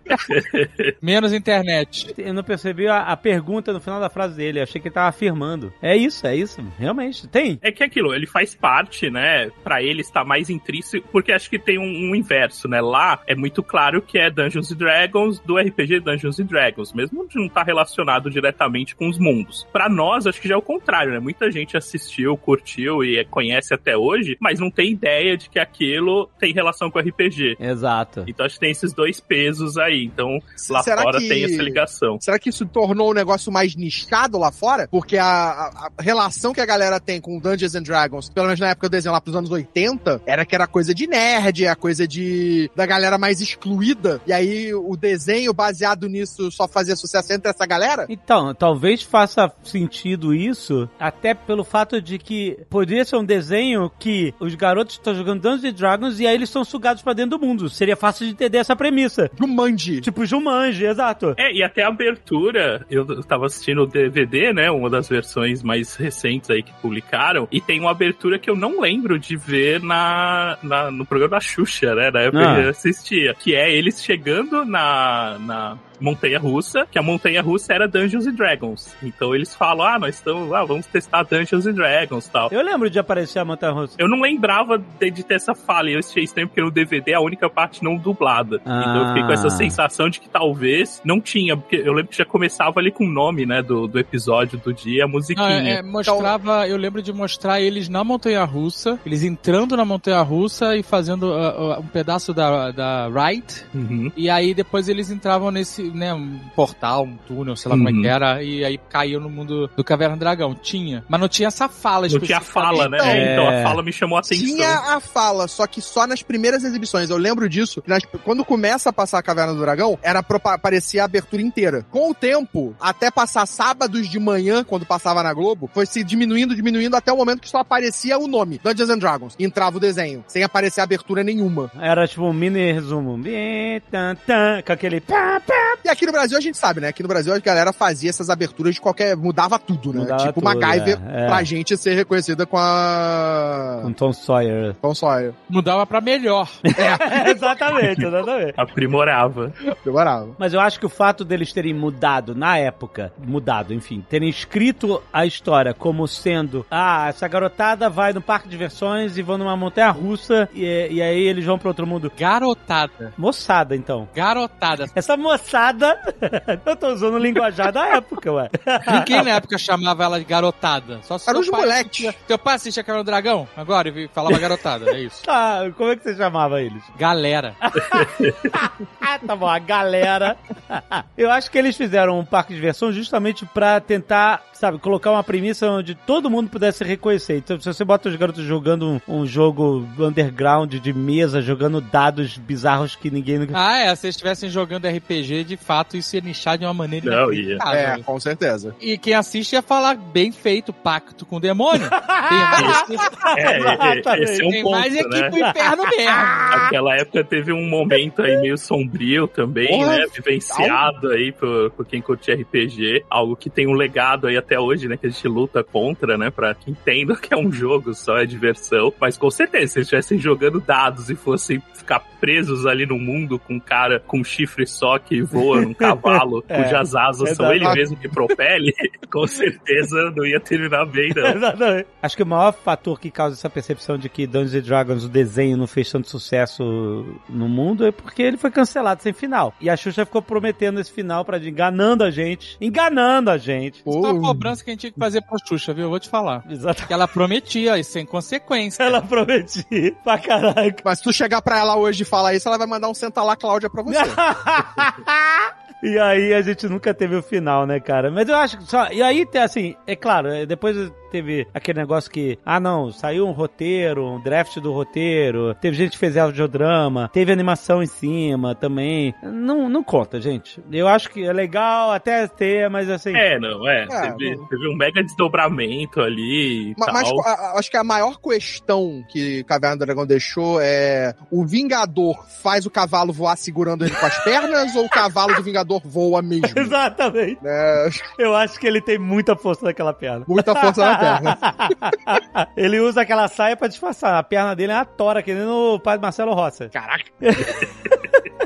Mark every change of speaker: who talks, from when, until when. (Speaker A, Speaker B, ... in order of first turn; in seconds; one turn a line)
Speaker A: 0.3-0.9
Speaker B: 1.0-2.1
Speaker C: 2.1-7.6
Speaker A: 7.6-27.6
Speaker C: 27.6-28.3
Speaker A: 28.3-32.2
Speaker D: 30.6-48.1
Speaker C: 48.1-59.3
Speaker D: 59.4-60.1
Speaker C: 60.0-61.4
Speaker A: 61.4-82.5
Speaker C: 72.3-72.7
Speaker C: 82.5-84.0
Speaker A: 84.0-95.8
Speaker C: 88.7-89.8
Speaker B: 95.4-113.1
Speaker D: 96.0-96.3
Speaker A: 103.7-104.1
Speaker A: 107.7-108.1
Speaker A: 112.1-114.8
Speaker D: 112.7-113.3
Speaker C: 113.0-113.8
Speaker D: 114.3-131.7
Speaker C: 131.7-135.8
Speaker D: 135.8-143.9
Speaker C: 139.9-141.5
Speaker C: 143.8-144.8
Speaker D: 144.8-145.3
Speaker B: 145.5-146.6
Speaker C: 146.6-148.6
Speaker D: 146.8-147.3
Speaker A: 147.7-148.1
Speaker A: 148.6-149.6
Speaker D: 149.8-150.4
Speaker C: 150.4-162.1
Speaker B: 162.2-163.1
Speaker C: 163.2-164.1
Speaker B: 164.1-164.9
Speaker C: 164.9-169.3
Speaker B: 168.9-175.2
Speaker D: 171.3-172.1
Speaker C: 175.2-176.9
Speaker B: 176.9-177.6
Speaker C: 177.6-193.6
Speaker A: 177.9-178.6
Speaker B: 193.5-198.0
Speaker A: 197.0-197.6
Speaker D: 197.7-198.7
Speaker B: 198.8-203.3
Speaker C: 201.9-204.5
Speaker A: 202.6-205.4
Speaker B: 204.5-206.4
Speaker C: 205.4-206.5
Speaker A: 206.5-231.4
Speaker D: 209.6-210.8
Speaker C: 225.5-227.8
Speaker C: 231.2-243.9
Speaker D: 243.9-244.5
Speaker B: 243.9-249.0
Speaker C: 246.5-247.0
Speaker C: 248.8-250.8
Speaker D: 250.8-254.2
Speaker C: 253.9-273.2
Speaker A: 273.1-277.2
Speaker D: 273.9-274.4
Speaker D: 276.8-286.7
Speaker C: 286.4-287.4
Speaker D: 287.4-288.1
Speaker C: 288.1-298.2
Speaker D: 290.3-291.5
Speaker D: 296.7-297.1